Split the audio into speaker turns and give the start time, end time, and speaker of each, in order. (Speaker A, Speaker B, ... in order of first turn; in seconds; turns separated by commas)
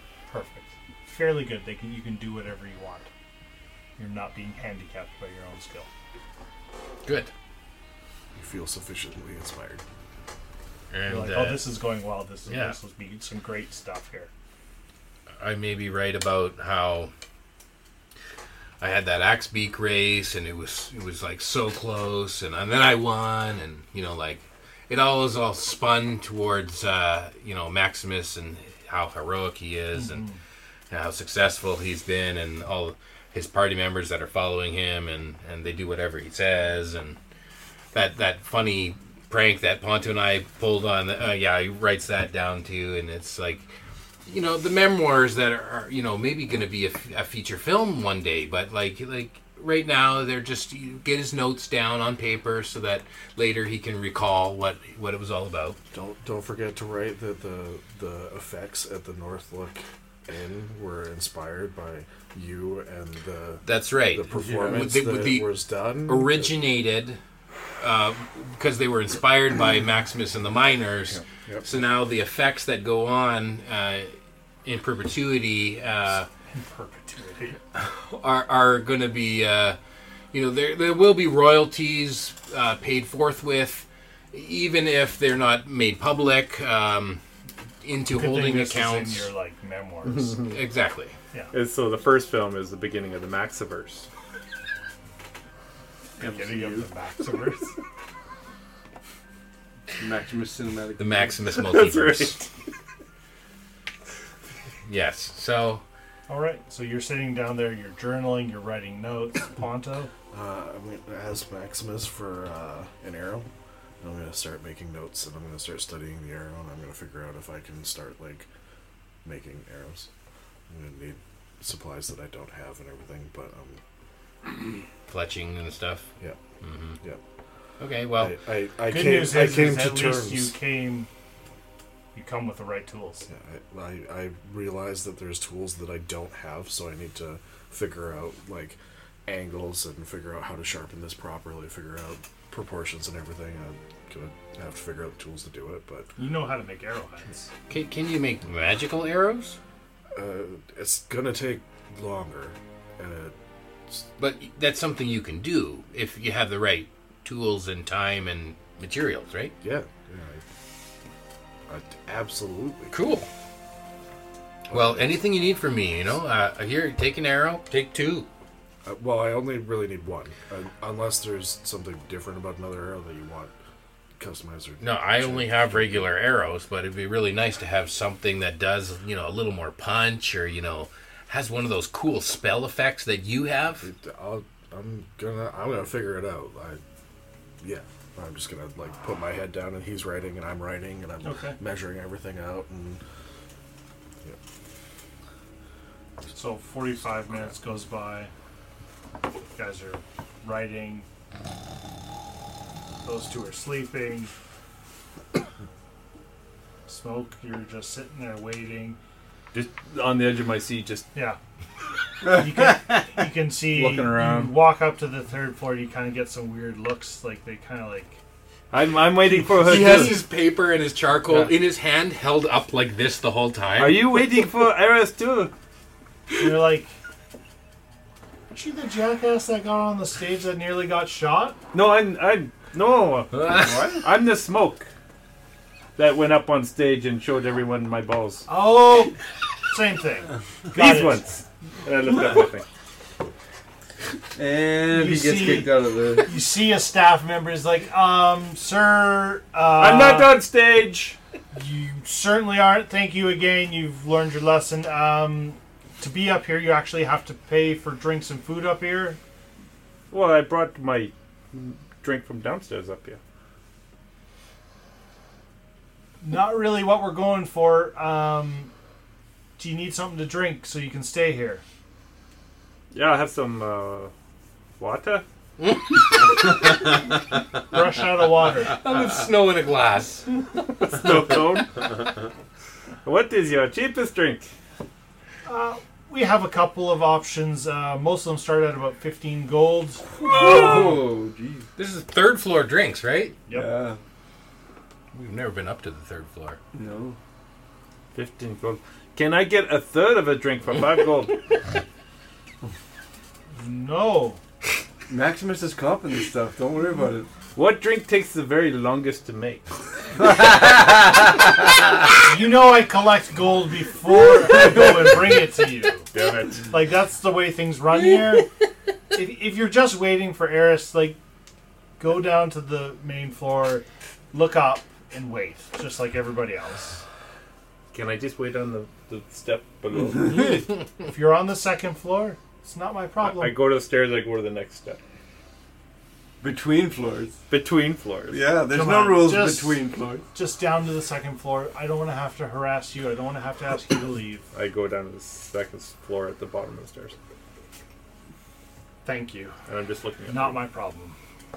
Speaker A: 0.3-3.1, Speaker A: 4.0-5.9, Speaker B: 7.0-7.3, Speaker C: 8.3-9.8, Speaker B: 10.9-11.7, Speaker A: 11.1-14.3, Speaker B: 12.5-12.8, Speaker B: 15.4-17.1, Speaker B: 18.8-30.2, Speaker A: 29.9-30.4, Speaker B: 30.9-37.2, Speaker B: 37.9-43.7, Speaker B: 44.2-55.8, Speaker C: 55.9-66.6, Speaker B: 63.6-65.5, Speaker D: 64.3-64.9, Speaker B: 66.0-67.2, Speaker B: 67.8-74.1, Speaker C: 71.3-71.7, Speaker B: 74.6-76.3, Speaker A: 76.5-77.6, Speaker B: 78.0-79.8, Speaker B: 80.3-87.2, Speaker B: 87.8-89.3, Speaker A: 88.1-90.4, Speaker E: 90.1-90.5, Speaker B: 90.5-91.2, Speaker E: 91.5-94.1, Speaker D: 96.2-96.9, Speaker A: 96.2-97.7, Speaker D: 100.0-101.4, Speaker B: 101.0-102.4, Speaker E: 101.6-102.5, Speaker B: 104.8-105.8, Speaker A: 106.3-110.1, Speaker C: 110.3-113.5, Speaker C: 114.0-118.5, Speaker C: 119.2-120.1, Speaker C: 120.7-123.8, Speaker B: 125.1-126.1, Speaker B: 126.6-127.0, Speaker B: 127.8-128.3, Speaker C: 128.2-130.5, Speaker A: 128.9-131.1, Speaker A: 132.1-133.3, Speaker C: 133.3-146.1, Speaker A: 146.2-147.5, Speaker B: 147.7-149.6, Speaker C: 150.1-153.3, Speaker B: 154.2-159.5, Speaker C: 159.6-160.4, Speaker C: 161.7-162.9, Speaker B: 162.9-163.3, Speaker C: 164.7-165.2, Speaker B: 164.7-168.3, Speaker C: 168.8-173.5, Speaker C: 174.2-176.1, Speaker B: 174.8-183.9, Speaker C: 183.8-186.8, Speaker C: 187.6-193.0, Speaker A: 191.2-191.6, Speaker A: 196.3-198.3, Speaker A: 199.5-201.1, Speaker A: 203.0-204.3, Speaker A: 206.9-209.0, Speaker E: 209.5-211.1, Speaker A: 212.2-218.2, Speaker E: 213.7-214.6, Speaker E: 218.7-220.2, Speaker B: 219.6-224.1, Speaker E: 223.8-225.5, Speaker A: 226.4-226.9, Speaker A: 228.5-231.6, Speaker E: 231.7-234.9, Speaker D: 233.5-234.0, Speaker E: 235.9-238.4, Speaker A: 238.5-239.2, Speaker A: 239.7-241.2, Speaker E: 240.7-242.6, Speaker D: 244.3-246.3, Speaker A: 244.9-250.4, Speaker E: 249.8-251.2, Speaker A: 251.5-259.2, Speaker E: 260.1-263.2, Speaker A: 266.2-268.7, Speaker A: 269.6-271.6, Speaker E: 272.9-274.1, Speaker E: 274.8-275.2, Speaker B: 275.6-276.1, Speaker A: 277.7-278.8, Speaker B: 278.7-280.3, Speaker E: 280.7-282.1, Speaker E: 283.0-284.5, Speaker A: 285.4-290.1, Speaker D: 290.2-291.7, Speaker B: 290.6-290.9, Speaker B: 291.8-293.4, Speaker A: 293.5-293.7, Speaker D: 293.5-294.0, Speaker B: 295.1-296.6, Speaker D: 296.7-297.2, Speaker E: 298.1-301.4, Speaker A: 303.5-304.4, Speaker D: 305.1-307.3, Speaker E: 307.5-309.7, Speaker A: 312.2-316.1, Speaker E: 316.1-316.7, Speaker A: 316.7-318.5, Speaker A: 319.1-321.2, Speaker A: 322.0-327.0, Speaker E: 327.9-330.7, Speaker A: 331.0-333.6, Speaker E: 333.2-335.0, Speaker D: 336.4-337.4, Speaker E: 337.5-338.4, Speaker D: 338.3-340.2, Speaker A: 338.7-344.4, Speaker E: 344.5-347.1, Speaker A: 349.0-349.5, Speaker E: 349.7-350.6, Speaker A: 350.3-351.1